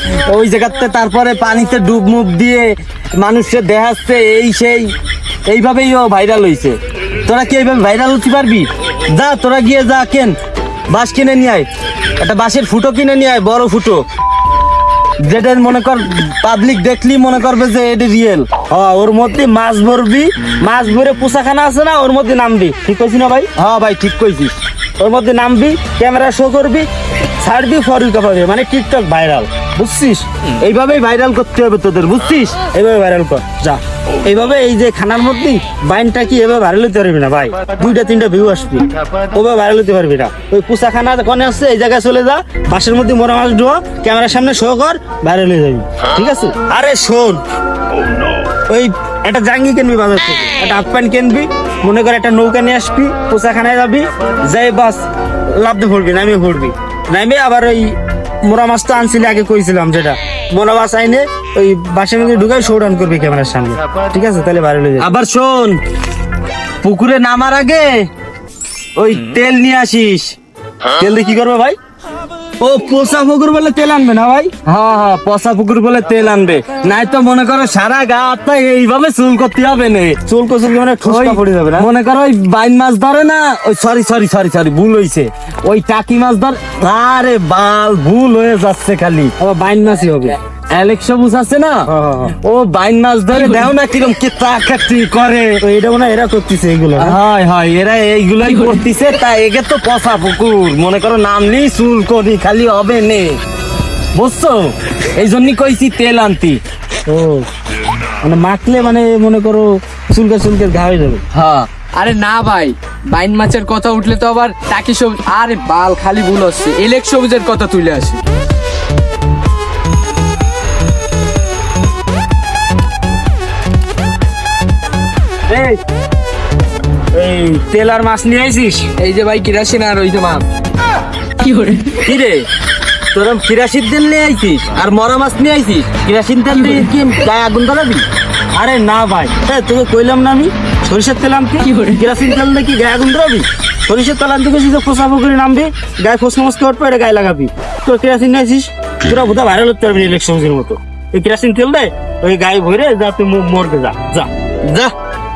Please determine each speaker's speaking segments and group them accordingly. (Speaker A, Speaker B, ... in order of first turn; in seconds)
Speaker A: 0.2-4.9, 5.5-10.3, 10.9-11.7, 12.2-14.0, 15.2-18.5, 23.6-24.6, 30.6-32.6, 65.0-65.8, 66.8-68.1, 69.0-70.3, 74.6-80.2, 81.0-89.3, 90.7-91.9, 92.4-95.6, 97.0-103.3, 104.1-106.6, 111.3-111.7, 125.5-125.8, 132.0-132.4, 133.1-138.0
Speaker B: 18.7-23.5, 25.0-26.9, 27.4-30.2, 32.7-47.4, 48.7-65.1, 71.0-71.8, 72.6-74.5, 80.3-81.9, 89.4-90.3, 91.8-92.3, 95.6-97.2, 107.1-107.5, 108.2-111.2, 127.1-128.9, 138.5-154.3
Speaker C: 93.3-93.6, 111.9-118.2, 129.0-130.4, 131.4-132.0, 141.6-142.0